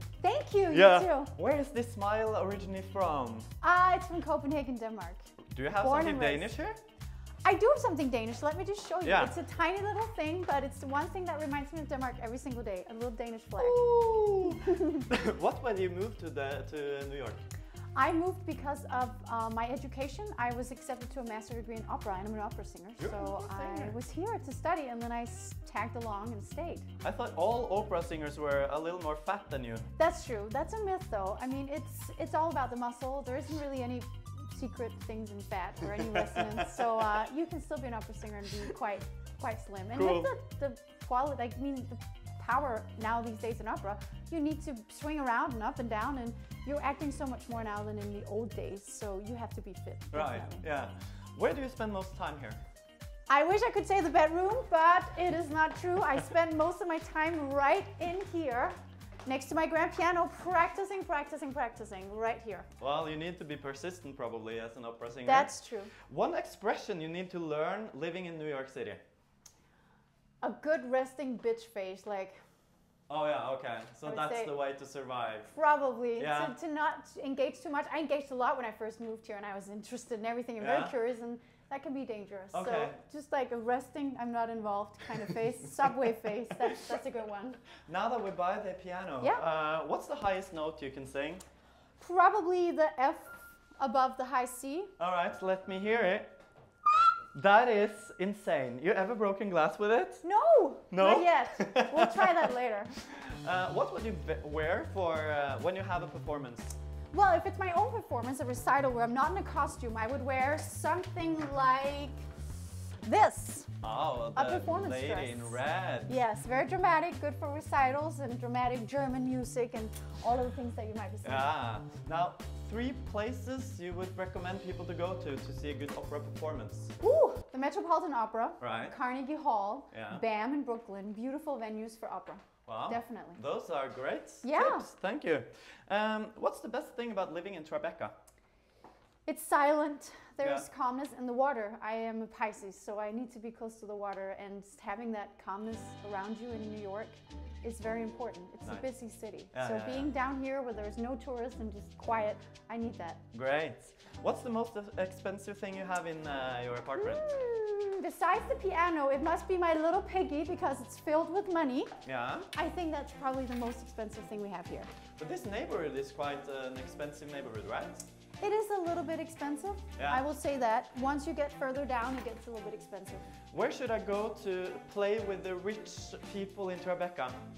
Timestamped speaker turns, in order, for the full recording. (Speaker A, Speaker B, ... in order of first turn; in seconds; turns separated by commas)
Speaker A: 0.2-1.3, Speaker B: 0.7-3.5, Speaker A: 3.6-6.5, Speaker B: 5.5-6.8, Speaker A: 7.5-13.8, Speaker B: 9.0-9.3, Speaker B: 13.6-17.4, Speaker A: 14.8-15.0, Speaker A: 17.9-26.9, Speaker B: 23.0-24.0, Speaker B: 27.0-29.9, Speaker A: 30.0-50.6, Speaker B: 39.9-40.3, Speaker B: 50.1-52.6, Speaker A: 53.3-62.7, Speaker B: 62.8-65.5, Speaker A: 65.2-65.9, Speaker B: 66.1-69.0, Speaker A: 70.4-72.4, Speaker B: 73.1-75.5, Speaker A: 74.0-74.5, Speaker A: 75.5-87.6, Speaker B: 76.2-76.5, Speaker B: 80.6-80.9, Speaker B: 82.5-83.0, Speaker B: 87.9-91.4, Speaker A: 92.0-94.9, Speaker B: 95.0-96.4, Speaker B: 97.3-100.2, Speaker A: 100.2-102.9, Speaker B: 100.9-102.4, Speaker B: 103.0-106.8, Speaker A: 107.1-112.2, Speaker A: 113.0-113.8, Speaker B: 113.8-116.2, Speaker A: 114.3-121.5, Speaker B: 121.2-127.0, Speaker A: 127.0-133.4, Speaker B: 128.6-129.0, Speaker B: 129.9-130.2, Speaker B: 132.7-138.2, Speaker A: 134.4-134.9, Speaker A: 139.3-153.2, Speaker B: 140.4-140.7, Speaker B: 149.5-150.1, Speaker B: 153.3-157.3, Speaker A: 157.0-162.0, Speaker B: 162.0-162.5, Speaker A: 162.5-164.9, Speaker B: 165.2-168.1, Speaker A: 168.4-173.3, Speaker B: 170.0-170.2, Speaker B: 173.5-177.4